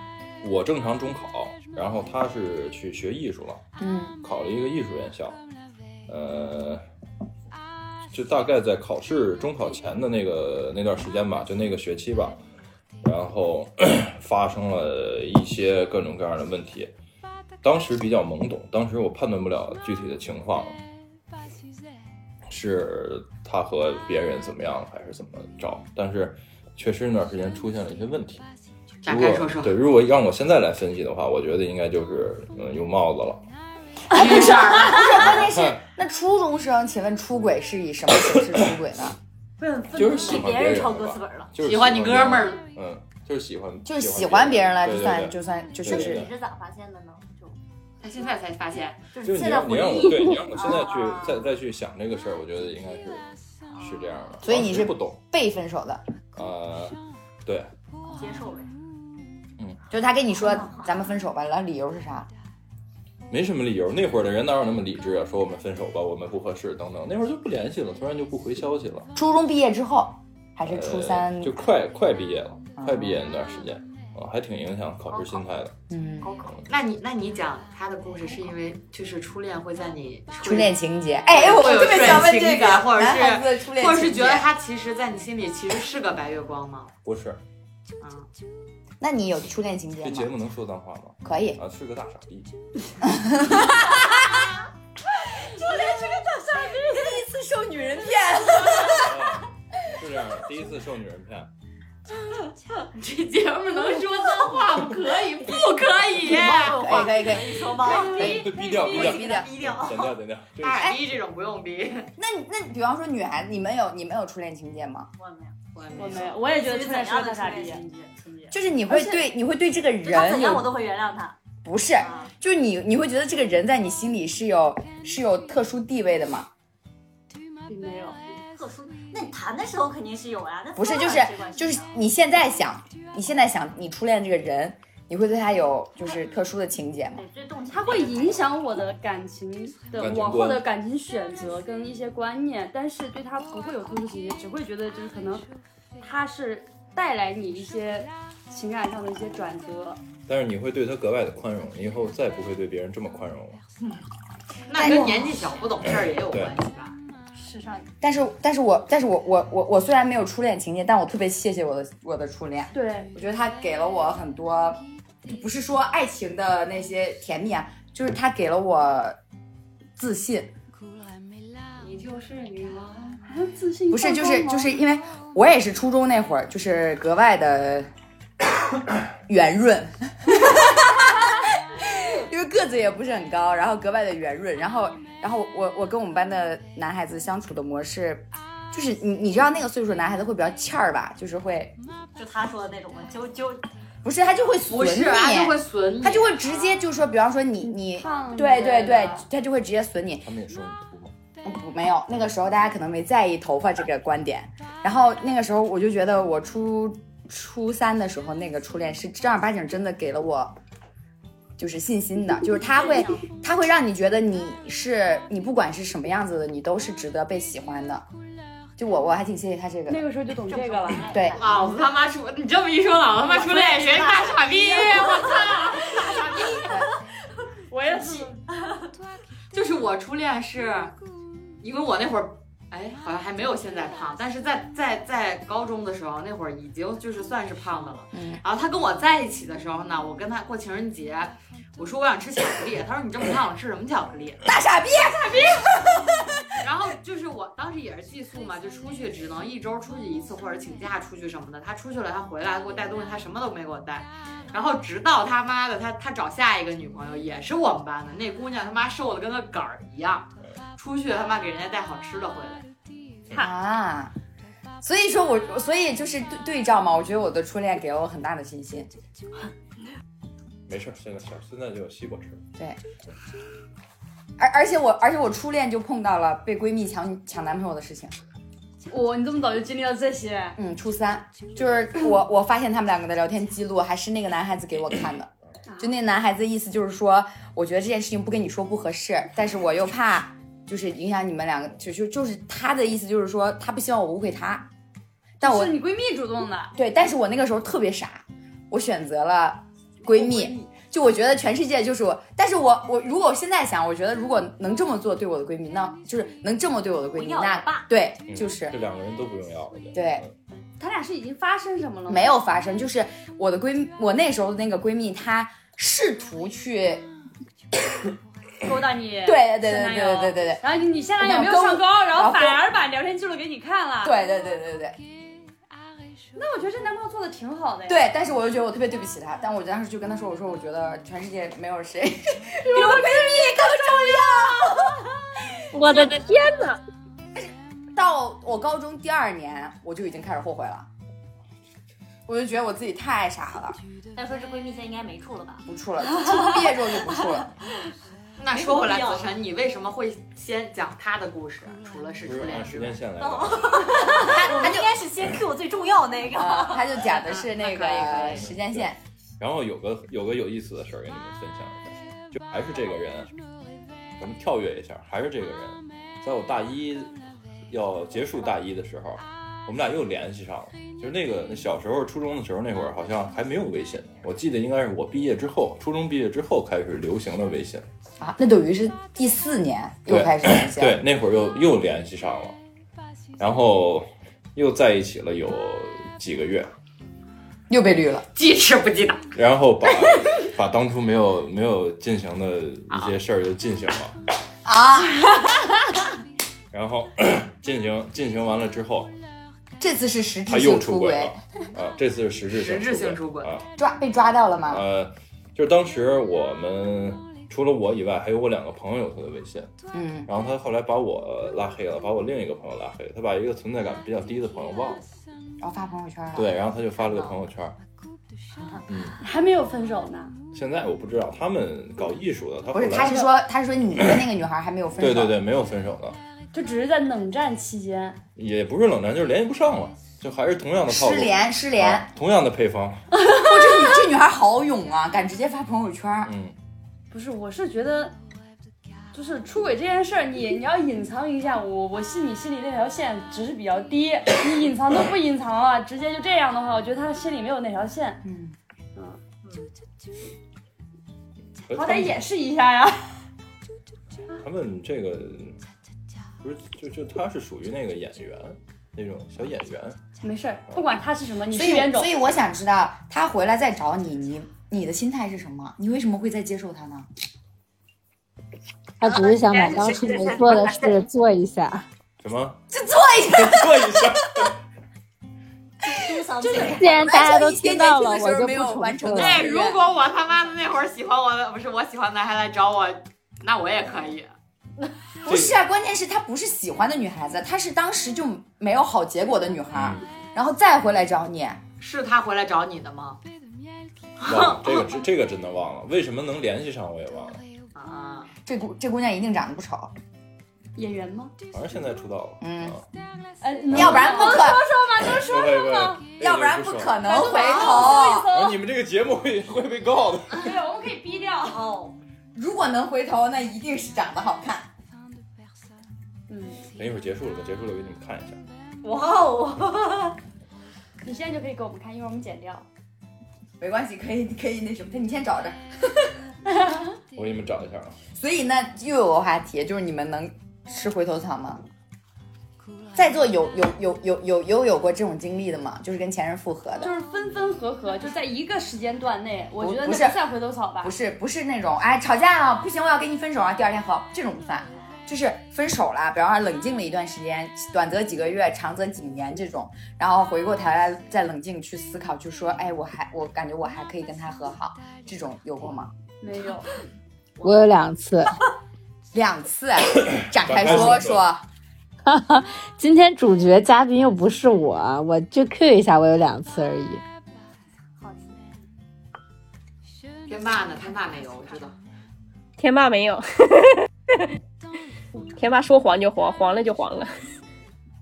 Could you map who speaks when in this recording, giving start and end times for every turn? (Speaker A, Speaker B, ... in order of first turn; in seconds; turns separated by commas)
Speaker A: 0.4-3.6, Speaker B: 3.8-4.2, Speaker A: 4.2-5.4, Speaker A: 6.1-6.8, Speaker A: 8.1-12.4, Speaker A: 13.0-16.9, Speaker A: 17.6-20.8, Speaker A: 22.5-28.4, Speaker C: 29.0-29.7, Speaker A: 29.1-33.4, Speaker C: 34.1-35.3, Speaker B: 34.1-39.2, Speaker A: 35.2-35.8, Speaker D: 39.6-41.5, Speaker A: 39.9-46.3, Speaker C: 41.6-42.6, Speaker B: 43.9-46.3, Speaker D: 45.8-47.6, Speaker C: 48.0-49.0, Speaker D: 49.1-51.5, Speaker A: 49.2-55.2, Speaker D: 53.7-54.4, Speaker B: 54.4-56.0, Speaker A: 56.4-58.5, Speaker D: 58.1-58.7, Speaker B: 59.9-62.3, Speaker D: 60.4-61.0, Speaker A: 63.3-69.1, Speaker B: 69.2-71.5, Speaker A: 70.7-75.7, Speaker B: 72.8-73.2, Speaker D: 75.1-75.5, Speaker B: 75.9-76.3, Speaker D: 76.2-76.6, Speaker C: 76.7-80.8, Speaker B: 80.4-84.5, Speaker C: 81.3-86.9, Speaker A: 87.0-87.4, Speaker C: 88.0-88.3, Speaker B: 89.0-90.3, Speaker A: 90.0-92.5, Speaker B: 91.2-91.6, Speaker B: 93.0-94.1, Speaker B: 95.5-99.3, Speaker E: 96.2-97.0, Speaker A: 98.9-101.5, Speaker C: 102.8-107.0, Speaker D: 106.1-110.2, Speaker B: 106.3-109.5, Speaker E: 107.8-108.8, Speaker A: 108.1-111.0, Speaker C: 110.6-112.1, Speaker B: 110.7-111.0, Speaker B: 112.2-115.1, Speaker D: 115.2-115.6, Speaker C: 115.7-116.4, Speaker E: 116.0-117.8, Speaker D: 116.3-119.2, Speaker B: 118.5-120.7, Speaker D: 120.0-121.4, Speaker B: 121.6-126.5, Speaker D: 122.0-122.3, Speaker E: 127.7-128.2, Speaker D: 128.5-131.9, Speaker B: 130.8-137.2, Speaker D: 137.1-138.6, Speaker E: 137.7-145.5, Speaker A: 140.0-140.7, Speaker E: 146.0-150.0, Speaker A: 150.3-153.6, Speaker C: 154.7-157.0, Speaker B: 154.7-155.4, Speaker D: 157.3-157.9, Speaker B: 158.0-169.2, Speaker E: 162.7-163.1, Speaker B: 170.0-170.5, Speaker C: 171.8-173.2, Speaker E: 173.2-174.8, Speaker B: 173.9-177.9, Speaker B: 179.3-191.8, Speaker D: 192.2-193.6, Speaker B: 194.0-200.3, Speaker C: 194.7-196.4, Speaker E: 197.6-199.2, Speaker A: 200.2-201.1, Speaker B: 201.4-210.6, Speaker B: 211.6-218.1, Speaker D: 212.6-213.3, Speaker B: 218.8-220.0, Speaker E: 219.9-221.1, Speaker D: 220.5-221.8, Speaker B: 221.1-221.4, Speaker C: 221.4-226.7, Speaker D: 223.2-226.9, Speaker E: 227.7-228.4, Speaker D: 228.0-228.9, Speaker C: 229.5-230.9, Speaker C: 231.6-244.4, Speaker B: 238.1-238.4, Speaker B: 244.4-246.4, Speaker C: 246.6-262.7, Speaker B: 263.3-264.1, Speaker B: 264.8-268.9, Speaker A: 270.7-272.4, Speaker B: 274.4-278.1, Speaker E: 278.9-280.6, Speaker B: 280.6-294.7, Speaker E: 285.7-285.9, Speaker B: 295.4-295.8, Speaker E: 295.4-296.7, Speaker B: 296.8-308.8, Speaker D: 300.1-300.6, Speaker D: 307.1-307.9, Speaker A: 308.3-310.3, Speaker B: 309.9-310.2, Speaker E: 310.5-312.3, Speaker B: 312.1-317.1, Speaker E: 318.6-324.2, Speaker B: 319.2-320.6, Speaker B: 321.2-322.6, Speaker B: 324.0-325.0, Speaker E: 326.4-328.0, Speaker B: 327.9-335.1, Speaker E: 332.7-333.8, Speaker F: 335.7-336.8, Speaker B: 335.8-336.1, Speaker B: 337.9-340.9, Speaker B: 342.3-343.8, Speaker D: 344.1-345.6, Speaker B: 345.7-347.5, Speaker D: 346.1-347.9, Speaker C: 348.4-353.0, Speaker D: 348.5-349.3, Speaker A: 352.3-354.0, Speaker D: 353.2-356.9, Speaker B: 354.2-354.9, Speaker B: 356.3-359.0, Speaker C: 357.1-358.4, Speaker A: 358.4-363.3, Speaker A: 364.2-367.2, Speaker A: 367.7-377.9, Speaker B: 378.2-381.0, Speaker A: 380.1-382.6, Speaker A: 383.4-386.7, Speaker B: 387.7-388.3, Speaker C: 388.3-389.3, Speaker A: 389.4-394.1, Speaker C: 392.9-393.2, Speaker B: 394.6-395.5, Speaker A: 396.7-399.1, Speaker B: 399.8-401.4, Speaker A: 400.5-403.7, Speaker C: 402.5-403.5, Speaker B: 403.8-404.8, Speaker A: 404.7-409.7, Speaker B: 409.9-410.3, Speaker A: 410.3-415.1, Speaker B: 415.6-416.5, Speaker A: 416.4-417.8, Speaker C: 417.1-417.4, Speaker A: 418.9-419.2, Speaker E: 419.2-420.3, Speaker A: 420.5-423.1, Speaker B: 422.7-425.4, Speaker A: 425.0-426.2, Speaker E: 426.5-428.2, Speaker A: 428.4-433.1, Speaker B: 430.9-432.1, Speaker B: 433.3-436.3, Speaker A: 436.3-436.6, Speaker E: 437.1-438.1, Speaker E: 439.1-448.2, Speaker B: 448.2-448.6, Speaker A: 451.6-452.2, Speaker E: 451.7-453.1, Speaker A: 454.4-455.6, Speaker A: 456.4-460.0, Speaker E: 460.2-462.1, Speaker B: 461.5-467.1, Speaker G: 469.0-471.9, Speaker D: 469.5-469.9, Speaker A: 472.2-472.6, Speaker B: 472.7-474.5, Speaker A: 473.4-474.5, Speaker D: 475.8-477.0, Speaker B: 475.9-479.8, Speaker G: 476.6-479.5, Speaker C: 479.1-484.3, Speaker B: 485.2-491.6, Speaker A: 485.3-485.6, Speaker A: 489.7-490.0, Speaker C: 491.8-493.2, Speaker C: 494.2-494.9, Speaker A: 494.2-497.4, Speaker C: 497.8-498.3, Speaker B: 498.5-499.9, Speaker E: 500.8-501.3, Speaker A: 501.5-502.9, Speaker B: 502.4-502.8, Speaker E: 503.4-506.0, Speaker A: 503.7-504.1, Speaker B: 503.7-504.7, Speaker A: 505.0-507.0, Speaker B: 506.2-508.4, Speaker E: 507.0-508.6, Speaker A: 508.0-510.6, Speaker E: 510.4-511.6, Speaker D: 511.4-512.0, Speaker B: 512.3-514.7, Speaker E: 516.3-516.6, Speaker A: 516.8-518.4, Speaker D: 518.8-520.2, Speaker E: 521.0-522.7, Speaker B: 523.6-525.6, Speaker A: 527.1-528.0, Speaker B: 528.2-531.6, Speaker B: 533.0-536.9, Speaker E: 536.8-540.9, Speaker B: 539.6-540.2, Speaker B: 540.8-555.9, Speaker E: 556.2-556.7, Speaker G: 557.4-558.4, Speaker B: 559.1-561.4, Speaker A: 560.3-561.2, Speaker G: 562.1-567.0, Speaker D: 568.0-568.5, Speaker C: 570.3-571.8, Speaker F: 572.6-573.8, Speaker F: 575.4-577.1